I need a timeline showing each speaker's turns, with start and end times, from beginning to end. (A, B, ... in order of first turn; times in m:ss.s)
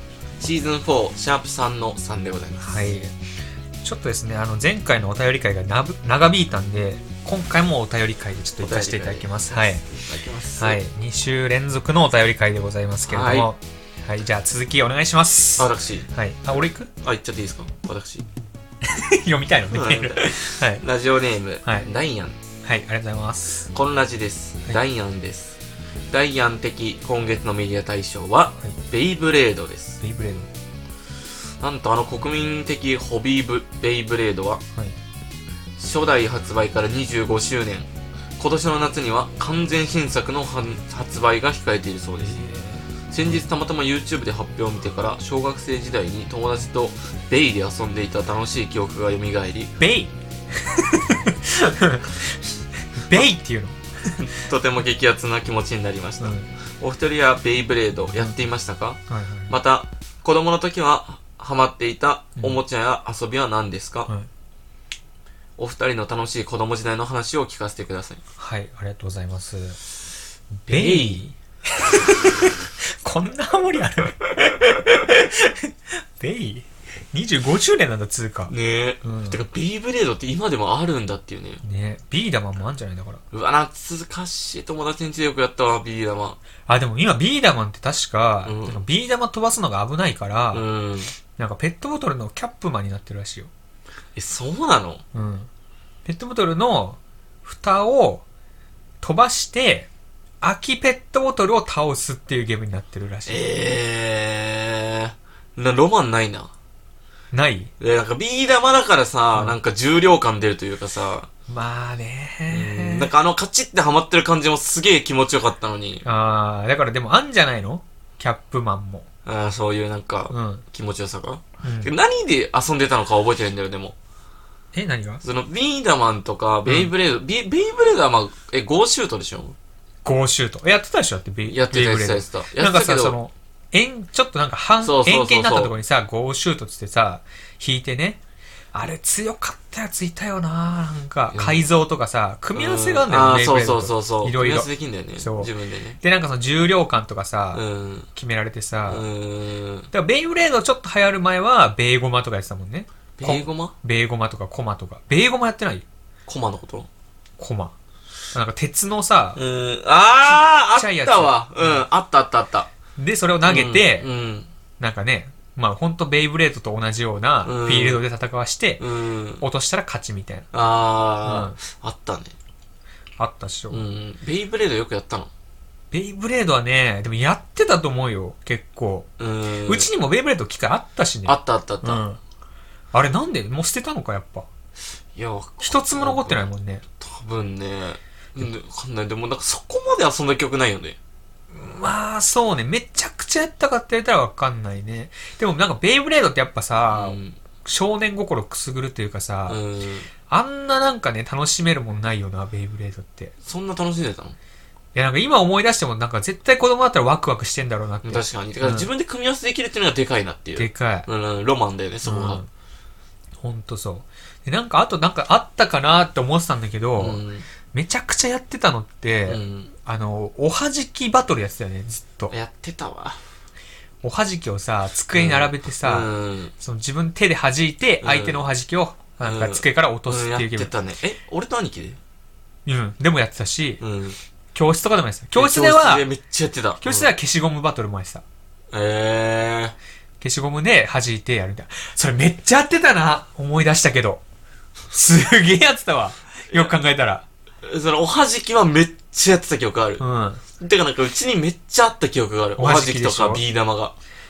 0:00.4-0:02.8 A
0:02.6-0:03.1 B
0:03.8-0:09.8 B
0:08.6-0:10.8 A
0:10.6-0:16.9 B
0:13.1-0:13.5 A
0:15.6-0:18.3 A
0:18.8-0:20.8 B
0:19.7-0:22.4 A
0:22.6-0:23.7 B
0:23.7-0:25.6 A
0:26.1-0:30.0 A
0:30.0-0:30.5 B
0:31.6-0:34.6 A
0:35.8-0:42.4 A
0:42.2-0:43.4 B
0:43.1-0:49.7 A
0:49.8-0:52.4 B
0:53.0-0:54.3 B
0:54.2-1:04.1 A
0:56.2-0:56.5 B
0:59.1-0:59.6 B
1:05.6-1:08.2 A
1:08.4-1:09.8 B
1:10.6-1:19.4 B
1:10.7-1:11.2 A
1:18.5-1:21.6 A
1:21.6-1:23.2 B
1:23.3-1:26.4 A
1:26.7-1:30.6 B
1:28.4-1:28.8 A
1:30.5-1:31.1 A
1:31.4-1:33.5 B
1:34.2-1:35.0 A
1:35.1-1:35.5 B
1:36.0-1:38.2 B
1:39.0-1:39.9 B
1:40.4-1:43.5 B
1:43.3-1:46.5 A
1:47.3-1:47.7 B
1:47.8-1:51.3 A
1:51.5-1:53.1 B
1:52.5-1:56.0 A
1:56.0-1:59.1 B
1:59.2-2:04.0 A
2:00.3-2:00.6 B
2:01.6-2:01.9 B
2:04.7-2:05.2 B
2:05.2-2:09.6 A
2:06.7-2:06.9 B
2:10.0-2:18.2 B
2:11.4-2:13.2 A
2:14.8-2:15.8 A
2:18.7-2:27.6 B
2:21.3-2:21.7 A
2:22.6-2:26.0 A
2:27.5-2:28.1 A
2:28.2-2:29.1 B
2:28.9-2:29.9 A
2:29.9-2:35.8 B
2:33.2-2:33.8 A
2:36.3-2:36.9 A
2:37.4-2:37.7 B
2:38.3-2:39.4 B
2:39.4-2:42.7 A
2:40.3-2:41.8 B
2:43.0-2:44.1 B
2:43.5-2:44.5 A
2:44.8-2:48.8 B
2:47.4-2:48.0 A
2:48.8-2:49.4 A
2:49.4-2:50.5 B
2:50.5-2:52.3 A
2:51.2-2:51.6 B
2:53.2-2:53.8 B
2:53.7-2:55.3 A
2:55.9-2:59.1 B
2:59.2-2:59.9 A
2:59.7-3:02.2 B
3:01.3-3:02.0 A
3:02.9-3:04.5 B
3:05.2-3:06.5 A
3:05.6-3:06.8 B
3:07.0-3:11.0 A
3:11.5-3:19.6 B
3:16.9-3:17.4 A
3:19.5-3:20.1 A
3:20.3-3:23.3 B
3:23.4-3:24.4 A
3:25.0-3:28.9 B
3:28.0-3:32.4 A
3:30.6-3:31.1 B
3:32.0-3:32.5 B
3:33.4-3:42.3 B
3:37.0-3:37.5 A
3:39.3-3:39.7 A
3:42.3-3:43.2 A
3:44.0-3:50.7 B
3:45.1-3:46.5 A
3:48.0-3:48.4 A
3:49.2-3:52.0 A
3:52.7-3:53.8 B
3:53.8-3:54.2 A
3:54.5-3:56.0 B
3:55.4-3:57.1 A
3:56.8-3:58.2 B
3:58.7-3:59.8 A
4:00.2-4:04.2 B
4:04.9-4:07.3 B
4:07.6-4:10.0 A
4:10.0-4:10.4 B
4:10.6-4:13.9 A
4:12.6-4:13.4 B